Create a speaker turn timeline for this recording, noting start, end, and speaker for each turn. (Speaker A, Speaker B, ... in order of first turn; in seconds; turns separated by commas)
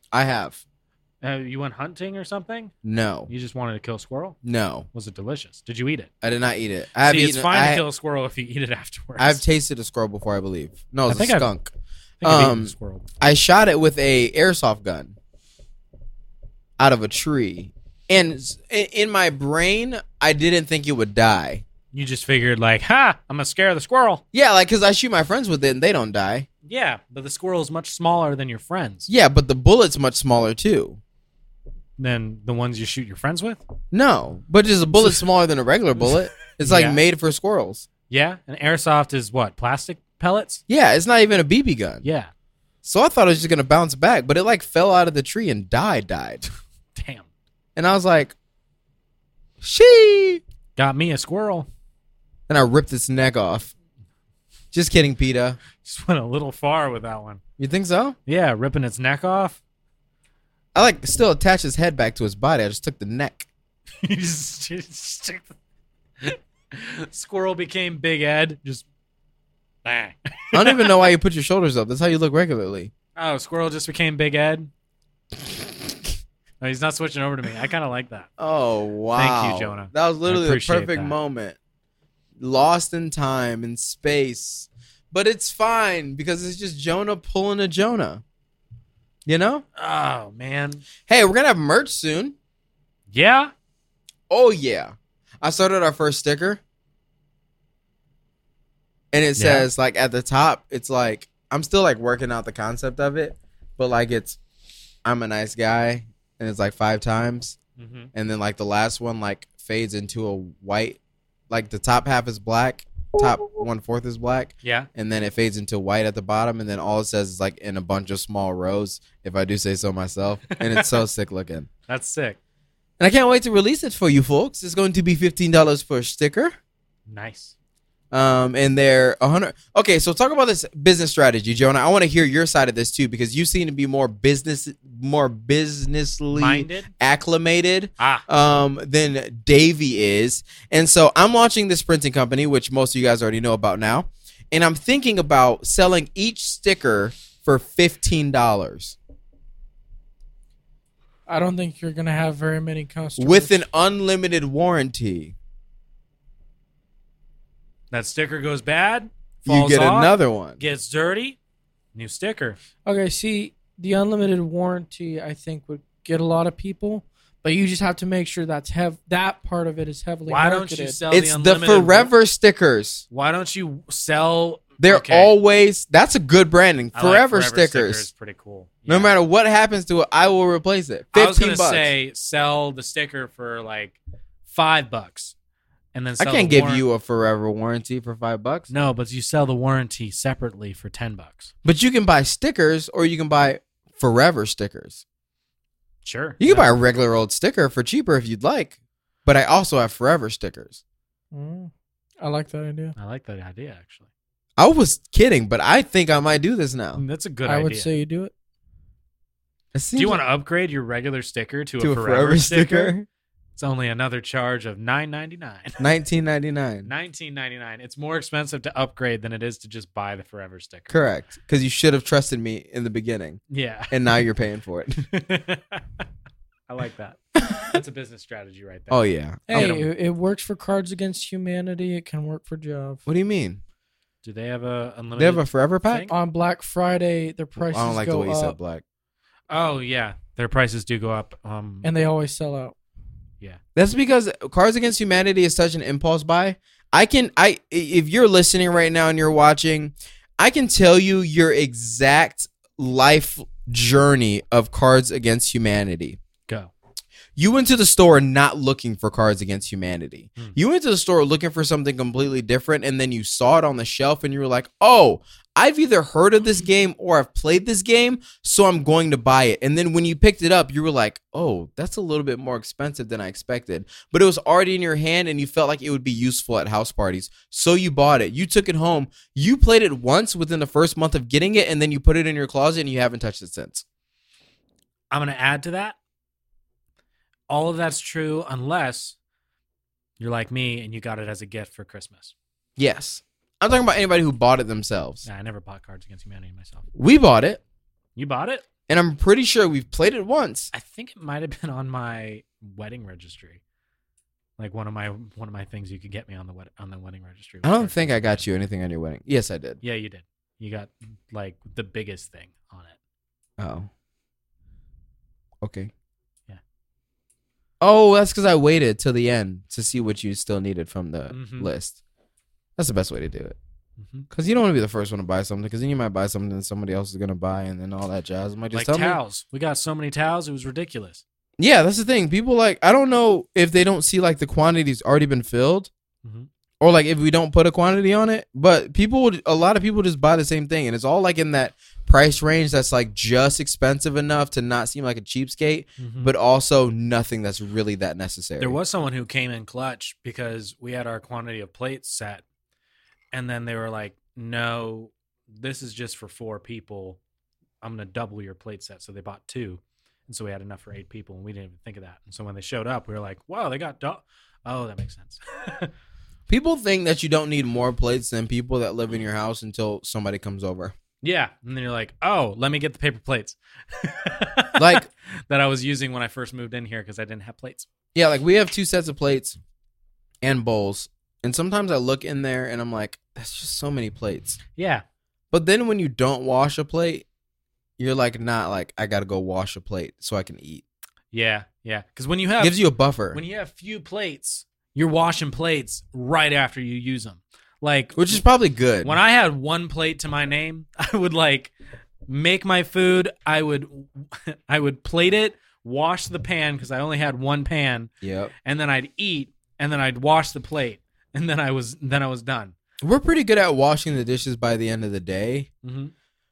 Speaker A: 0.1-0.6, Speaker B: 1.2-2.7, Speaker A: 2.8-3.3, Speaker B: 3.3-4.4, Speaker A: 4.4-4.9, Speaker B: 4.9-6.1, Speaker A: 6.2-7.8, Speaker B: 7.0-9.4, Speaker A: 9.2-11.7, Speaker B: 11.1-11.5, Speaker B: 12.2-13.1, Speaker A: 12.2-15.2, Speaker A: 16.8-21.6, Speaker B: 21.9-24.2, Speaker A: 24.3-26.5, Speaker B: 26.6-29.1, Speaker A: 29.1-31.0, Speaker B: 32.0-33.6, Speaker A: 33.9-37.9, Speaker B: 36.6-37.0, Speaker B: 38.1-40.6, Speaker A: 40.7-42.0, Speaker B: 42.0-42.3, Speaker A: 42.8-46.4, Speaker B: 47.0-47.3, Speaker A: 47.8-48.4, Speaker A: 49.6-50.4, Speaker B: 50.8-51.7, Speaker A: 52.5-53.7, Speaker A: 54.7-55.6, Speaker B: 55.8-57.4, Speaker A: 57.6-58.2, Speaker B: 58.3-59.6, Speaker A: 60.8-63.5, Speaker B: 64.0-65.5, Speaker B: 66.2-68.9, Speaker B: 69.8-70.9, Speaker A: 70.5-72.9, Speaker B: 73.2-74.7, Speaker B: 76.6-78.3, Speaker A: 78.4-81.6, Speaker B: 79.2-81.2, Speaker A: 82.4-88.2, Speaker A: 89.3-89.6, Speaker B: 89.8-90.8, Speaker A: 91.1-92.3, Speaker B: 93.1-93.5, Speaker A: 94.3-96.6, Speaker A: 99.1-104.4, Speaker B: 99.4-99.7, Speaker A: 105.0-107.6, Speaker B: 107.8-108.1, Speaker A: 108.1-111.0, Speaker A: 111.5-121.7, Speaker B: 114.6-114.9, Speaker B: 120.5-121.0, Speaker B: 121.9-122.4, Speaker A: 123.0-126.5, Speaker B: 127.1-127.5, Speaker A: 128.1-149.0, Speaker B: 136.3-136.9, Speaker B: 138.0-138.2, Speaker C: 151.3-153.6, Speaker A: 153.2-155.3, Speaker B: 157.9-161.4, Speaker A: 159.4-160.6, Speaker B: 161.9-162.6, Speaker C: 162.9-171.0, Speaker B: 170.3-172.1, Speaker A: 171.1-173.0, Speaker B: 173.1-175.3, Speaker A: 174.8-178.1, Speaker B: 176.9-179.1, Speaker A: 178.9-181.9, Speaker B: 181.1-185.3, Speaker B: 185.9-186.9, Speaker A: 186.2-188.7, Speaker B: 188.7-191.5, Speaker A: 191.7-195.0, Speaker B: 196.0-196.7, Speaker A: 196.4-200.8, Speaker C: 201.3-202.9, Speaker B: 203.0-204.1, Speaker A: 204.6-207.0, Speaker B: 207.0-207.9, Speaker C: 207.5-208.3, Speaker A: 209.7-210.2, Speaker B: 209.9-212.9, Speaker A: 211.8-213.1, Speaker B: 213.6-215.8, Speaker A: 215.8-216.9, Speaker B: 216.8-220.9, Speaker A: 220.9-225.0, Speaker B: 223.5-224.0, Speaker B: 225.0-225.8, Speaker B: 226.7-229.0, Speaker A: 227.4-227.8, Speaker A: 228.9-229.8, Speaker C: 229.5-233.0, Speaker B: 229.5-229.9, Speaker A: 233.1-233.6, Speaker B: 234.2-236.1, Speaker A: 235.2-236.1, Speaker C: 236.1-238.6, Speaker A: 237.6-238.8, Speaker B: 239.5-241.9, Speaker C: 241.8-242.7, Speaker A: 243.8-256.2, Speaker A: 257.4-283.8, Speaker B: 285.1-286.0, Speaker B: 287.5-289.2, Speaker B: 290.2-292.3, Speaker A: 292.8-295.3, Speaker B: 295.2-296.9, Speaker A: 296.9-297.6, Speaker B: 298.2-298.6, Speaker A: 298.9-300.7, Speaker B: 300.7-303.6, Speaker B: 304.6-308.5, Speaker A: 307.6-309.8, Speaker B: 309.8-313.0, Speaker A: 313.6-313.9, Speaker A: 315.6-315.9, Speaker A: 317.8-322.0, Speaker B: 321.3-321.7, Speaker A: 322.8-323.6, Speaker B: 324.0-324.3, Speaker A: 324.3-329.2, Speaker B: 328.7-331.2, Speaker A: 331.6-335.9, Speaker A: 336.8-348.8, Speaker B: 346.0-346.3, Speaker B: 348.6-352.4, Speaker B: 353.3-357.2, Speaker B: 357.8-365.9, Speaker A: 366.5-370.9, Speaker B: 371.2-377.9, Speaker A: 374.8-375.1, Speaker A: 378.1-379.6, Speaker A: 380.4-384.6, Speaker B: 384.8-385.0, Speaker A: 385.5-387.3, Speaker A: 388.0-390.8, Speaker B: 391.3-392.8, Speaker A: 392.6-393.4, Speaker B: 393.3-398.2, Speaker A: 398.2-399.2, Speaker B: 399.0-401.7, Speaker B: 402.3-408.1, Speaker A: 408.2-408.5, Speaker B: 408.6-412.8, Speaker A: 413.0-415.7, Speaker B: 415.8-416.1